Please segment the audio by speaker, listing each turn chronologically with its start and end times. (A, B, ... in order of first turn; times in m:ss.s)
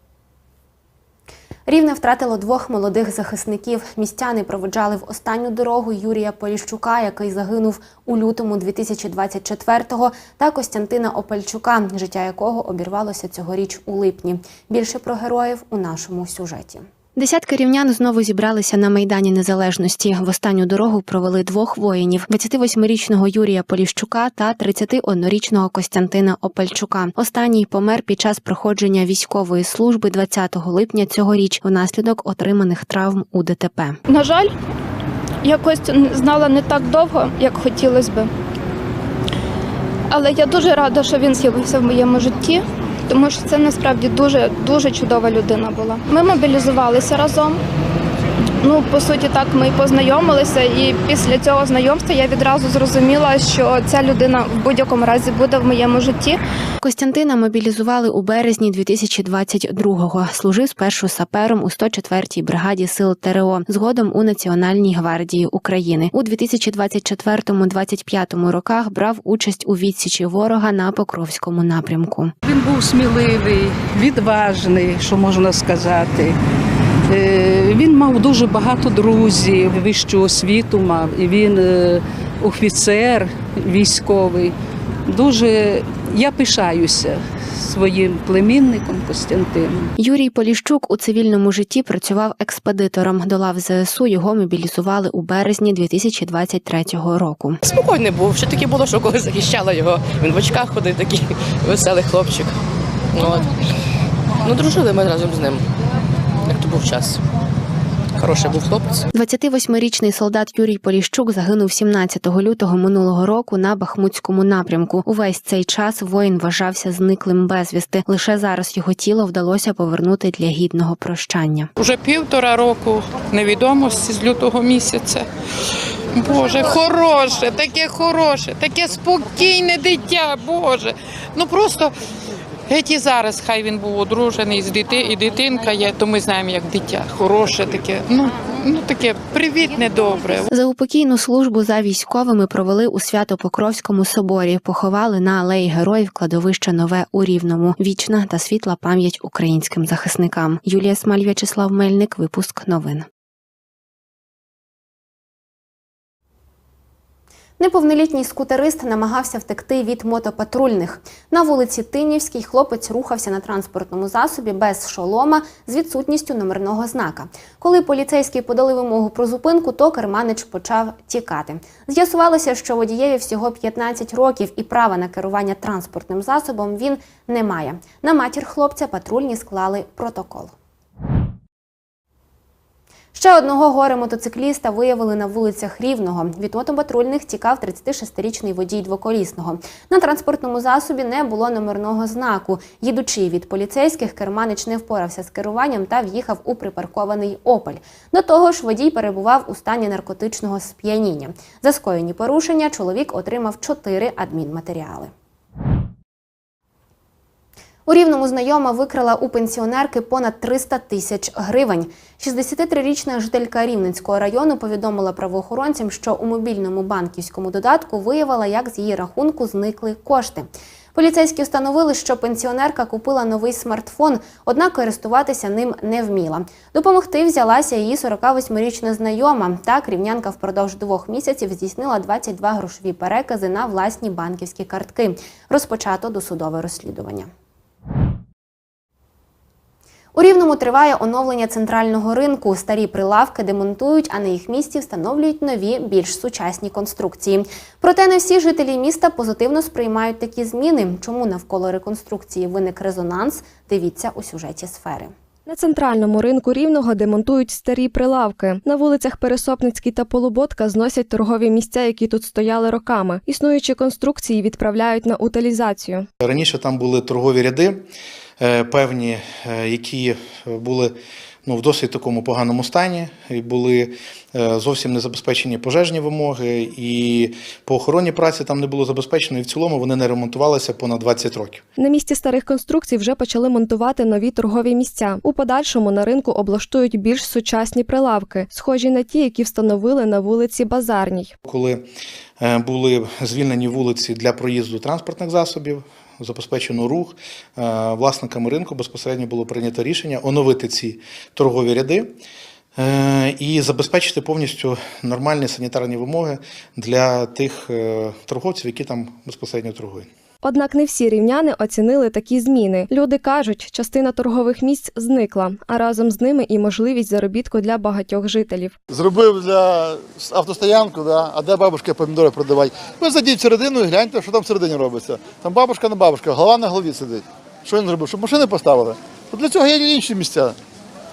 0:01.7-0:34.0 A
0:34.1-0:34.5 B
0:35.4-0:38.3 B
0:40.1-0:47.6 B
0:48.6-0:56.4 B
0:56.8-1:12.3 A
1:12.5-1:16.4 C
1:17.1-1:24.5 C
1:25.1-1:29.9 C
1:30.0-1:37.6 A
1:37.7-1:42.6 D
1:43.1-1:43.5 D
1:44.4-1:45.6 D
1:46.4-1:47.2 D
1:48.2-1:49.0 D
1:49.1-2:01.7 A
2:01.8-2:05.3 E
2:06.1-2:11.9 E
2:12.7-2:20.5 E
2:20.5-2:33.1 A
2:37.6-3:00.5 A
3:03.1-3:25.1 A
3:27.9-3:57.3 A
4:00.2-4:15.1 A
4:15.5-4:26.1 F
4:26.2-4:27.8 G
4:28.4-4:31.0 G
4:31.5-4:41.6 G
4:41.8-4:51.3 F
4:51.4-4:51.8 G
4:52.4-5:02.2 G
5:02.8-5:10.1 G
5:10.4-5:18.8 F
5:18.9-5:30.6 H